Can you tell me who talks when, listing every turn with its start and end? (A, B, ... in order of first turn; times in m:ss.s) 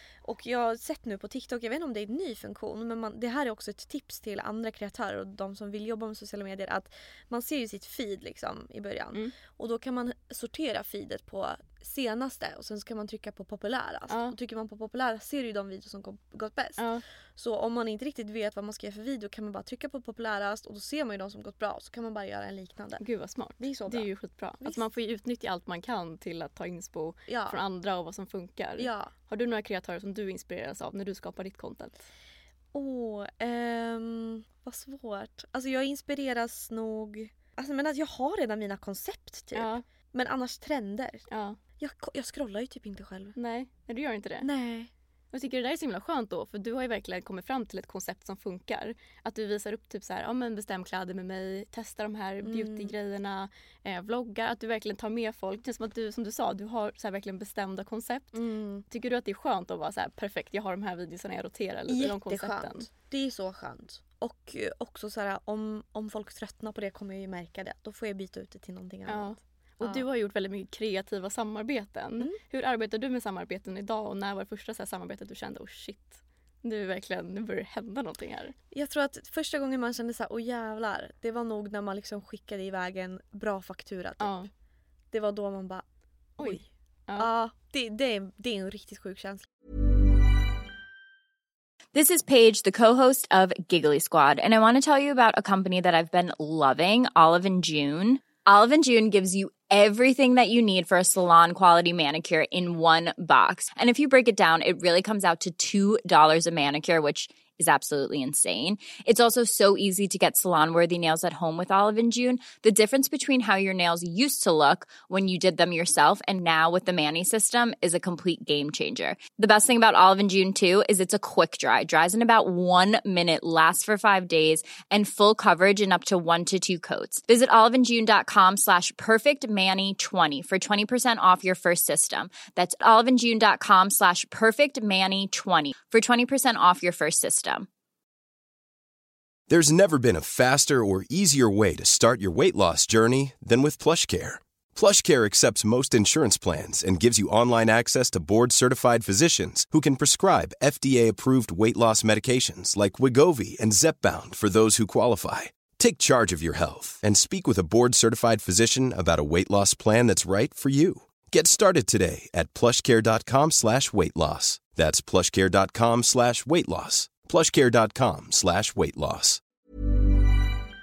0:00.2-0:23.0 A
0:14.1-0:14.4 B
0:23.0-0:32.1 B
0:23.6-0:24.1 A
0:27.3-0:27.6 A
0:28.8-0:29.1 A
0:32.7-0:41.2 A
0:39.6-0:39.8 B
0:41.3-0:41.6 B
0:41.8-0:43.4 A
0:43.4-0:44.5 B
0:44.4-0:44.9 A
0:45.3-0:58.4 B
0:52.4-0:52.9 A
0:58.4-0:58.8 A
0:58.9-1:02.9 B
1:01.9-1:10.0 A
1:09.1-1:18.6 B
1:18.7-1:24.5 A
1:24.2-1:24.5 B
1:25.1-1:25.8 A
1:26.4-1:27.3 B
1:27.2-1:29.5 A
1:31.9-2:17.7 C
2:19.5-2:49.4 D